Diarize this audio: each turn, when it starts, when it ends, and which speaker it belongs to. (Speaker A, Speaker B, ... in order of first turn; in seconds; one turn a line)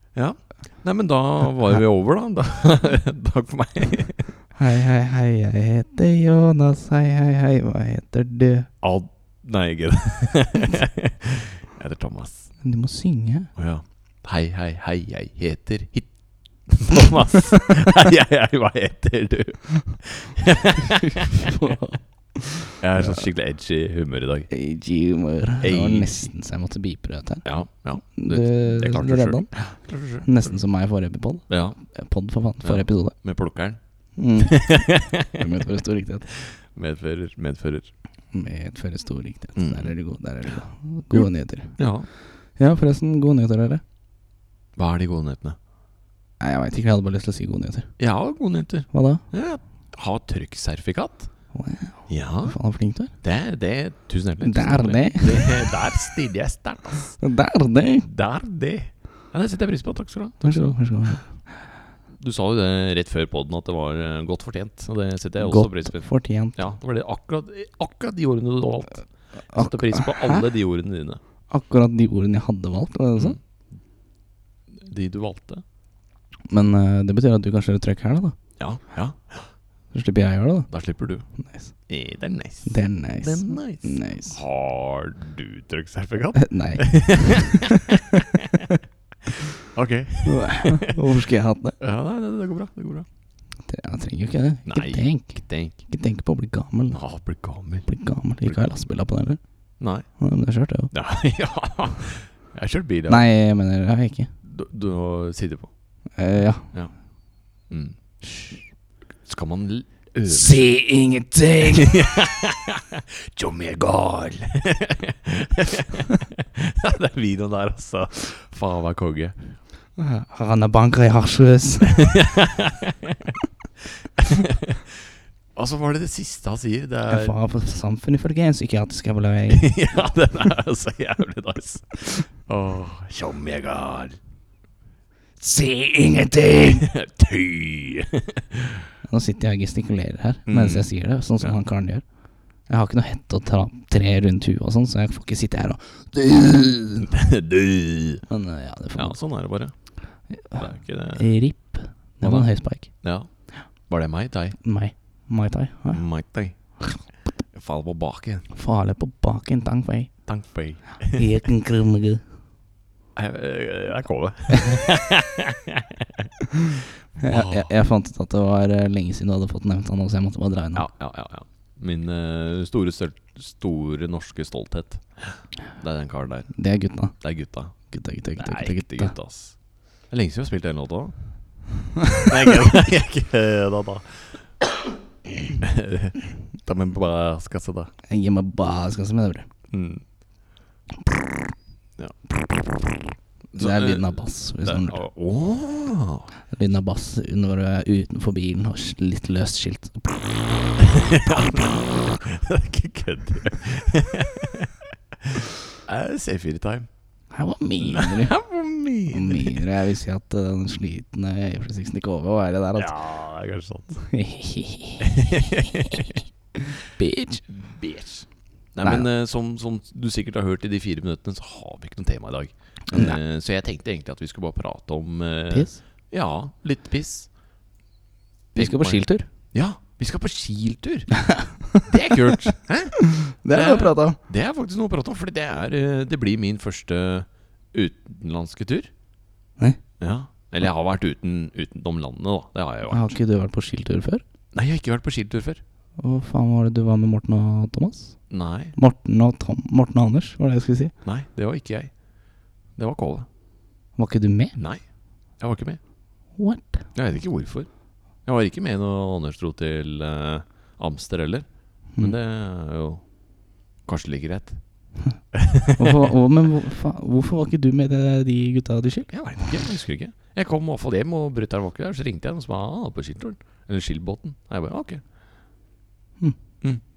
Speaker A: 0.1-4.4
Speaker B: 4.6-8.7
Speaker A: 8.8-12.5
Speaker B: 12.6-13.5
Speaker A: 13.6-21.5
Speaker B: 21.0-23.2
Speaker A: 22.8-24.5
Speaker B: 24.5-27.4
Speaker A: 25.6-26.3
Speaker A: 27.4-30.5
Speaker B: 28.1-33.2
Speaker A: 31.5-31.8
Speaker A: 32.6-33.8
Speaker B: 34.2-36.3
Speaker A: 34.4-35.5
Speaker A: 36.3-37.9
Speaker B: 38.3-43.8
Speaker A: 39.6-39.9
Speaker A: 41.1-42.1
Speaker A: 44.8-45.6
Speaker B: 46.4-47.9
Speaker A: 48.0-51.3
Speaker B: 48.9-49.2
Speaker B: 51.5-53.1
Speaker A: 52.1-52.6
Speaker A: 53.2-57.2
Speaker B: 54.4-55.7
Speaker B: 57.2-58.1
Speaker A: 58.0-61.2
Speaker B: 60.4-61.7
Speaker A: 62.2-71.2
Speaker B: 65.4-66.7
Speaker B: 69.5-70.4
Speaker B: 71.5-73.4
Speaker A: 74.7-75.6
Speaker B: 76.5-78.4
Speaker A: 78.6-79.5
Speaker B: 79.9-80.7
Speaker A: 80.7-81.2
Speaker B: 81.3-81.8
Speaker A: 81.9-88.7
Speaker B: 82.7-84.4
Speaker B: 86.3-88.8
Speaker A: 89.6-91.0
Speaker B: 90.2-91.8
Speaker A: 91.8-93.1
Speaker B: 93.7-97.0
Speaker A: 94.7-95.8
Speaker A: 96.9-97.9
Speaker B: 97.9-99.4
Speaker A: 99.8-100.1
Speaker B: 100.2-100.9
Speaker A: 100.9-103.2
Speaker B: 103.1-104.3
Speaker A: 104.4-105.7
Speaker B: 106.2-106.7
Speaker A: 107.7-108.0
Speaker B: 108.2-108.6
Speaker A: 109.3-110.6
Speaker B: 110.3-112.1
Speaker A: 111.7-119.6
Speaker B: 120.0-122.2
Speaker A: 121.9-127.4
Speaker B: 127.1-129.8
Speaker A: 129.5-134.2
Speaker A: 135.4-138.9
Speaker B: 136.0-136.8
Speaker B: 139.1-142.0
Speaker A: 140.5-141.6
Speaker B: 142.7-147.1
Speaker A: 147.1-148.2
Speaker B: 148.3-149.2
Speaker A: 148.9-149.7
Speaker B: 150.3-152.9
Speaker A: 150.5-151.3
Speaker A: 152.2-154.6
Speaker B: 154.6-156.1
Speaker A: 155.9-156.6
Speaker A: 157.5-158.5
Speaker B: 158.5-160.1
Speaker A: 160.3-161.3
Speaker B: 161.1-162.2
Speaker A: 163.2-166.3
Speaker B: 166.6-170.9
Speaker A: 167.2-167.7
Speaker A: 170.8-176.5
Speaker B: 176.6-177.2
Speaker A: 177.2-177.8
Speaker B: 177.9-179.1
Speaker A: 178.4-179.6
Speaker A: 180.1-181.1
Speaker A: 182.2-184.4
Speaker A: 185.6-187.9
Speaker B: 188.1-189.5
Speaker A: 189.7-190.0
Speaker A: 192.0-192.9
Speaker A: 193.5-196.3
Speaker B: 193.6-195.0
Speaker B: 196.5-200.5
Speaker A: 200.8-206.9
Speaker B: 207.3-208.3
Speaker A: 207.8-209.6
Speaker B: 209.1-212.9
Speaker A: 212.8-214.0
Speaker B: 214.0-217.5
Speaker A: 215.0-216.2
Speaker A: 217.5-227.3
Speaker B: 222.9-223.2
Speaker B: 225.5-225.8
Speaker A: 228.5-231.2
Speaker B: 228.6-229.3
Speaker B: 231.2-234.2
Speaker A: 231.8-238.9
Speaker A: 240.0-243.1
Speaker B: 242.9-244.2
Speaker A: 244.5-245.6
Speaker B: 246.0-248.2
Speaker A: 248.3-248.8
Speaker B: 248.8-250.9
Speaker A: 251.0-251.9
Speaker A: 252.8-253.3
Speaker B: 254.0-254.6
Speaker A: 255.4-255.8
Speaker B: 256.4-256.9
Speaker A: 256.9-257.7
Speaker A: 258.2-263.1
Speaker A: 263.9-264.6
Speaker A: 265.3-266.0
Speaker B: 265.8-269.6
Speaker A: 269.1-275.0